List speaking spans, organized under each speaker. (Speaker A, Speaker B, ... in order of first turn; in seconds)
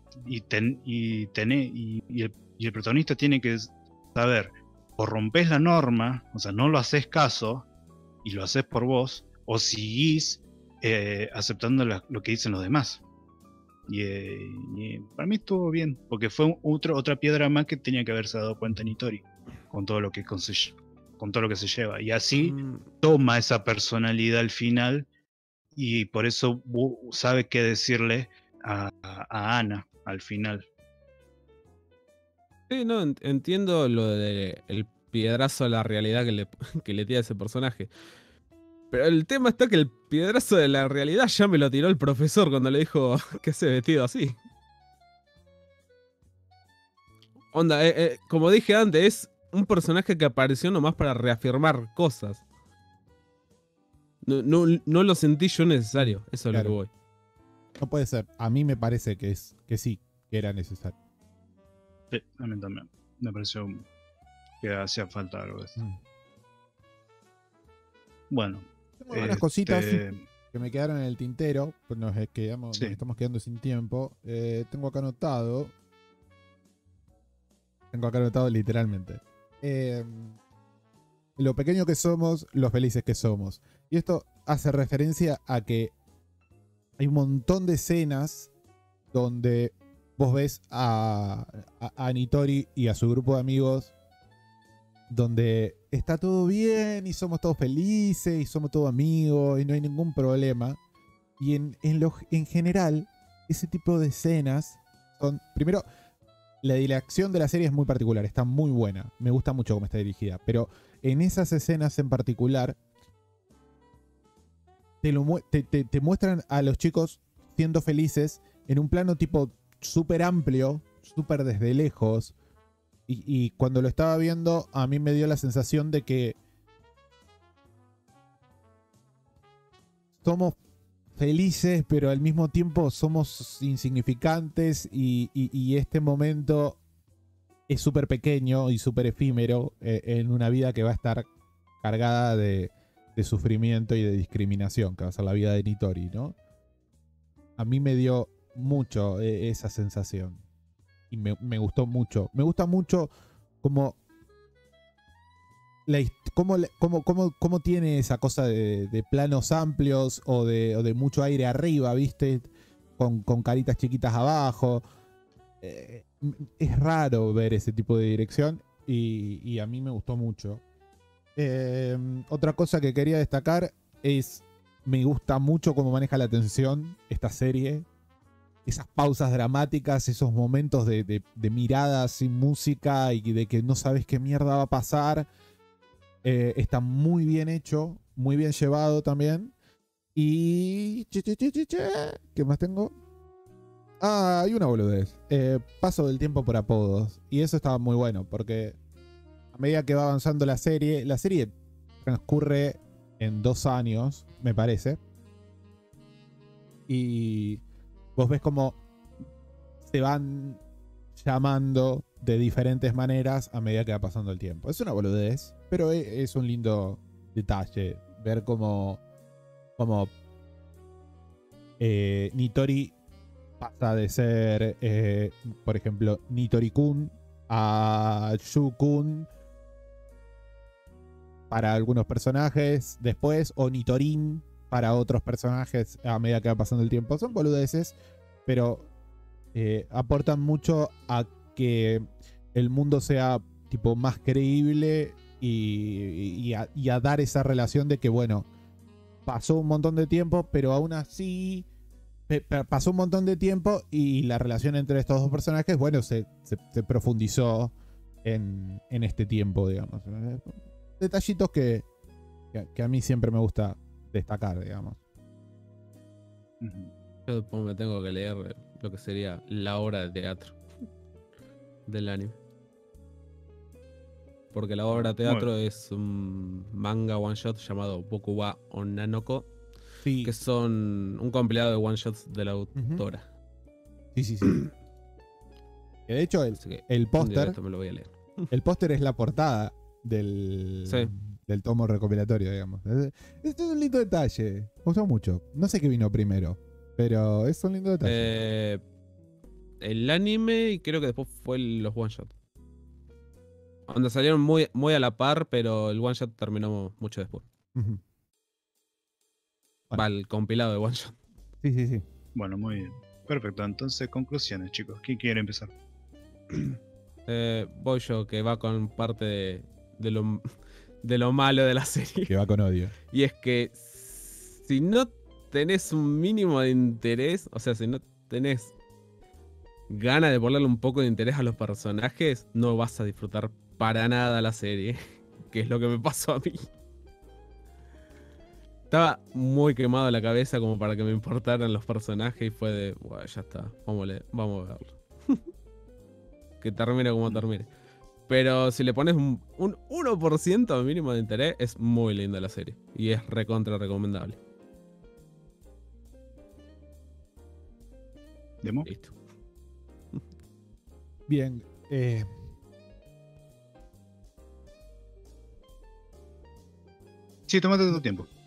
Speaker A: 0.2-7.7, 8.2-13.0, 13.9-25.1, 25.7-30.6, 62.1-63.8, 64.6-65.8, 68.3-70.2, 266.6-266.9, 275.2-275.5, 312.3-315.7, 358.6-358.9, 367.5-368.3
Speaker B: 22.4-22.9, 32.7-37.9, 38.9-44.4, 47.5-52.4, 54.2-56.9, 267.3-270.6, 271.9-272.4, 274.5-279.5, 280.2-283.2, 286.6-288.5, 290.9-291.1, 298.0-298.8, 299.8-302.3, 303.9-307.4, 309.9-311.1, 317.3-320.4, 321.0-322.3, 323.1-328.7, 329.9-336.7, 338.9-345.4, 346.6-347.7, 348.3-354.4, 358.9-359.1
Speaker C: 55.9-56.7, 57.8-60.9, 69.0-75.7, 77.9-80.3, 81.4-85.9, 87.0-88.5, 89.1-93.9, 95.1-100.8, 101.4-105.8, 106.6-112.8, 115.0-122.3, 123.1-126.4, 130.2-130.6, 131.2-136.8, 137.7-141.3, 141.8-146.3, 147.6-150.4, 151.1-153.1, 153.6-154.0, 155.8-164.8, 165.6-170.6, 171.3-177.8, 178.7-185.3, 186.2-189.5, 190.1-192.9, 194.0-198.8, 199.5-205.0, 206.9-207.6, 208.2-208.8, 209.8-210.6, 211.2-219.0, 219.8-220.1, 221.8-222.9, 223.6-229.3, 231.5-237.9, 238.4-238.9, 239.5-248.5, 249.2-251.7, 252.3-257.7, 258.2-261.8, 262.5-265.0, 280.0-280.3, 282.8-283.0, 284.1-284.6, 286.1-287.6, 288.5-298.4, 307.7-308.0, 311.6-312.0, 322.3-322.9, 361.3-362.3